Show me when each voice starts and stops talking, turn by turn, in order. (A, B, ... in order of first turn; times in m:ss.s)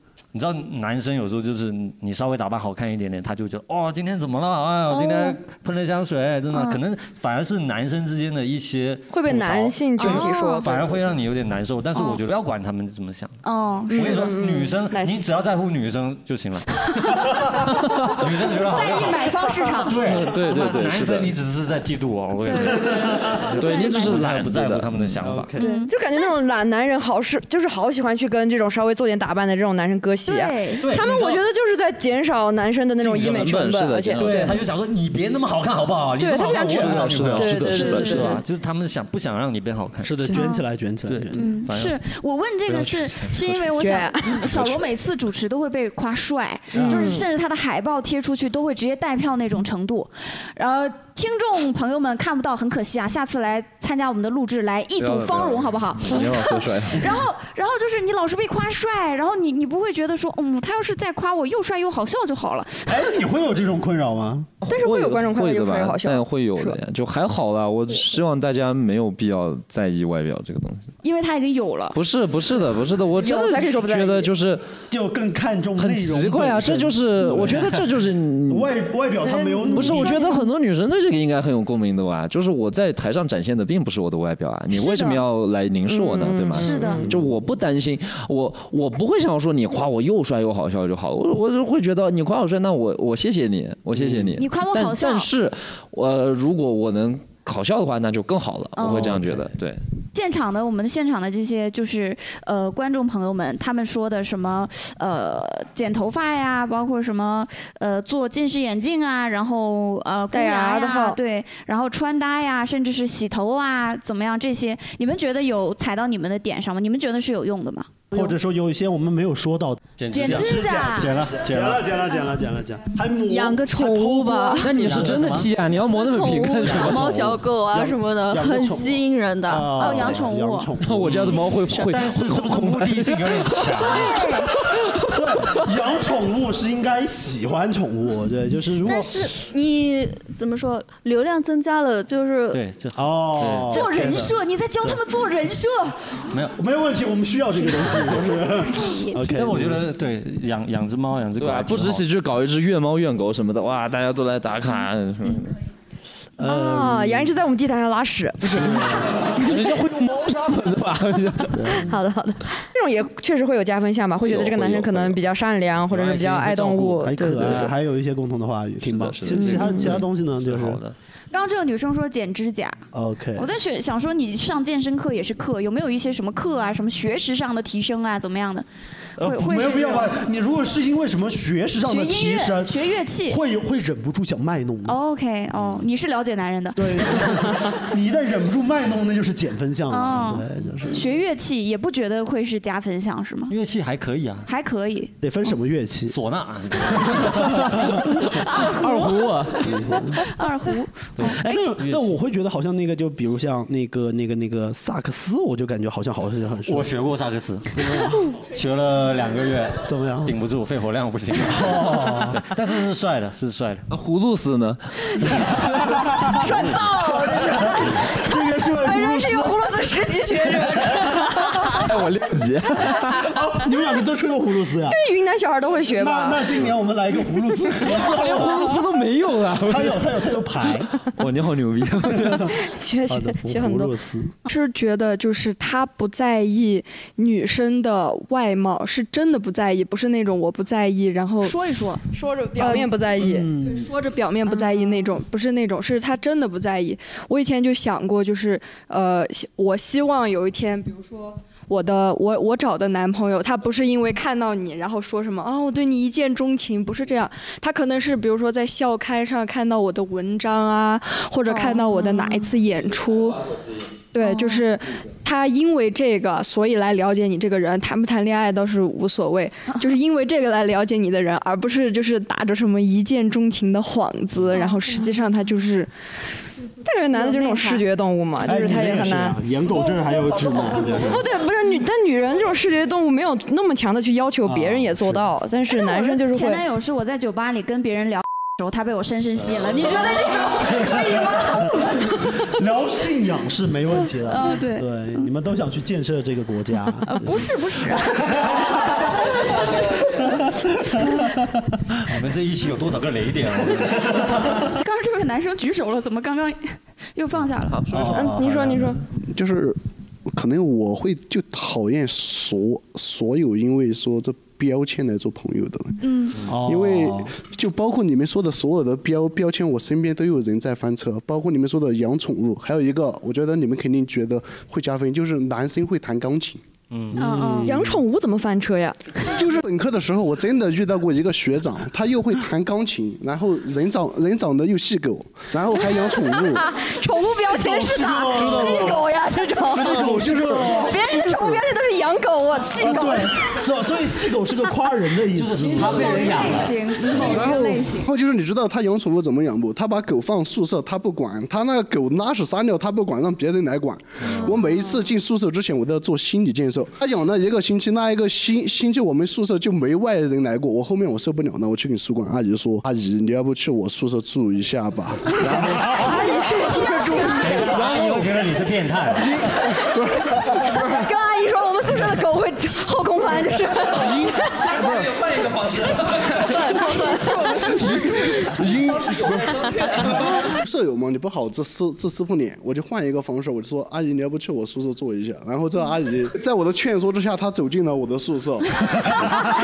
0:00.3-0:13.4 A
0:04.9-0:05.4 B
0:06.5-0:06.8 B
0:09.1-0:10.9 C
0:10.0-0:10.6 B
0:13.4-0:14.3 B
0:13.9-0:15.2 C
0:13.9-0:16.7 A
0:18.1-0:19.2 A
0:18.4-0:20.0 B
0:18.6-0:19.2 D
0:19.8-0:25.5 A
0:20.0-0:21.3 E
0:22.4-0:24.2 B
0:23.6-0:25.2 E
0:25.2-0:25.7 D
0:25.6-0:25.9 B
0:25.6-0:34.5 C
0:30.2-0:30.8 B
0:30.8-0:31.1 D
0:33.0-0:34.6 E
0:34.2-0:40.2 A
0:36.2-0:38.4 C
0:36.4-0:38.3 E
0:37.7-0:38.4 B
0:40.0-0:41.6 D
0:40.3-0:40.6 B
0:41.0-0:42.0 A
0:41.3-1:03.1 B
0:42.7-0:43.6 A
0:43.8-0:44.4 C
0:46.7-0:47.2 D
0:46.8-0:47.2 C
0:55.0-0:57.1 E
1:02.9-1:04.5 D
1:04.6-1:10.9 E
1:04.7-1:06.8 C
1:11.0-1:12.0 B
1:11.9-1:14.6 E
1:13.2-1:14.3 C
1:14.9-1:17.8 D
1:15.8-1:18.7 E
1:18.5-1:20.3 D
1:19.2-1:20.4 B
1:19.7-1:39.8 E
1:24.7-1:25.2 B
1:25.9-1:27.0 C
1:26.5-1:27.0 B
1:26.8-1:27.4 D
1:33.9-1:34.4 D
1:34.4-1:35.3 B
1:38.8-1:39.2 B
1:40.1-1:57.9 B
1:50.3-1:51.2 C
1:58.1-2:05.3 D
2:00.0-2:01.9 A
2:00.1-2:01.1 B
2:03.3-2:04.8 F
2:04.6-2:07.4 E
2:04.7-2:05.5 A
2:05.8-2:10.2 F
2:07.7-2:11.3 D
2:09.7-2:10.7 B
2:10.8-2:13.8 E
2:11.0-2:14.2 A
2:11.4-2:11.9 F
2:13.8-2:14.6 B
2:14.0-2:14.4 F
2:15.1-2:19.2 D
2:18.8-2:22.6 F
2:22.5-2:23.8 A
2:22.9-2:25.0 D
2:23.7-2:26.0 B
2:23.7-2:24.1 F
2:26.6-2:29.8 D
2:28.8-2:29.0 B
2:29.2-2:32.0 A
2:31.4-2:35.5 E
2:36.4-2:37.3 D
2:36.4-2:39.0 C
2:38.5-2:39.1 D
2:39.2-2:41.8 E
2:41.6-2:41.9 D
2:41.8-2:47.7 C
2:44.2-2:45.2 E
2:45.9-2:47.1 A
2:47.0-2:50.8 D
2:48.9-2:50.0 E
2:49.4-2:49.9 C
2:50.4-2:50.9 A
2:51.3-2:52.8 B
2:52.9-2:53.5 D
2:53.4-2:58.6 B
2:59.2-3:00.1 B
2:59.2-3:05.0 D
3:01.8-3:03.4 B
3:04.8-3:07.2 B
3:06.8-3:11.0 D
3:09.9-3:13.5 B
3:13.5-3:14.5 A
3:14.4-3:15.1 B
3:15.2-3:16.2 D
3:16.1-3:18.0 A
3:17.2-3:17.6 D
3:18.5-3:19.1 B
3:18.6-3:19.7 E
3:19.6-3:20.2 D
3:20.2-3:21.4 B
3:21.2-3:22.2 A
3:21.2-3:26.9 D
3:26.6-3:33.8 A
3:27.7-3:28.3 D
3:29.8-3:30.3 D
3:31.4-3:32.4 D
3:33.9-3:35.8 E
3:35.6-3:39.6 D
3:36.4-3:37.6 B
3:36.7-3:37.8 C
3:38.8-3:41.2 C
3:40.7-3:41.4 D
3:41.6-3:43.3 E
3:43.2-3:45.0 D
3:44.9-3:46.6 C
3:46.0-3:48.9 D
3:47.8-3:50.1 E
3:49.6-3:51.0 D
3:51.1-3:52.5 E
3:52.2-3:52.5 D
3:52.4-3:53.9 C
3:53.1-3:54.3 D
3:54.5-4:01.6 G
4:01.4-4:02.0 B
4:02.2-4:03.5 C
4:02.6-4:02.9 G
4:03.2-4:03.9 D
4:03.6-4:23.4 G
4:21.5-4:22.4 B
4:24.1-4:35.9 G
4:24.2-4:24.6 B
4:36.8-4:39.4 C
4:37.2-4:37.8 B
4:38.4-4:41.2 D
4:40.9-4:46.6 C
4:44.4-4:45.2 D
4:45.7-4:51.8 B
4:50.8-4:51.4 D
4:52.4-4:57.5 D
4:54.3-4:54.8 B
4:57.1-5:00.0 B
4:58.3-4:59.2 D
5:00.9-5:01.2 D
5:02.0-5:04.4 A
5:04.8-5:07.8 B
5:07.7-5:08.2 E
5:07.9-5:09.0 D
5:08.0-5:09.0 C
5:09.1-5:16.0 H
5:16.0-5:16.4 B
5:16.5-5:17.3 D
5:16.6-5:26.6 H
5:26.9-5:27.2 A
5:27.1-5:28.0 D
5:27.2-5:27.7 B
5:27.6-5:29.0 C
5:29.3-5:36.7 H
5:36.8-5:40.0 C
5:37.1-5:39.0 D
5:38.5-5:38.8 F
5:39.7-5:41.4 D
5:39.8-5:40.8 H
5:40.7-5:43.3 C
5:42.8-5:46.7 D
5:45.3-5:47.4 A
5:45.8-5:48.1 B
5:47.2-6:06.0 H
5:54.2-5:54.5 A
6:06.0-6:07.9 C
6:06.0-6:07.6 B
6:07.4-6:09.2 A
6:07.6-6:08.3 H
6:09.3-6:11.0 H
6:10.7-6:14.8 C
6:14.0-6:15.0 H
6:16.4-6:18.5 C
6:18.4-6:29.3 H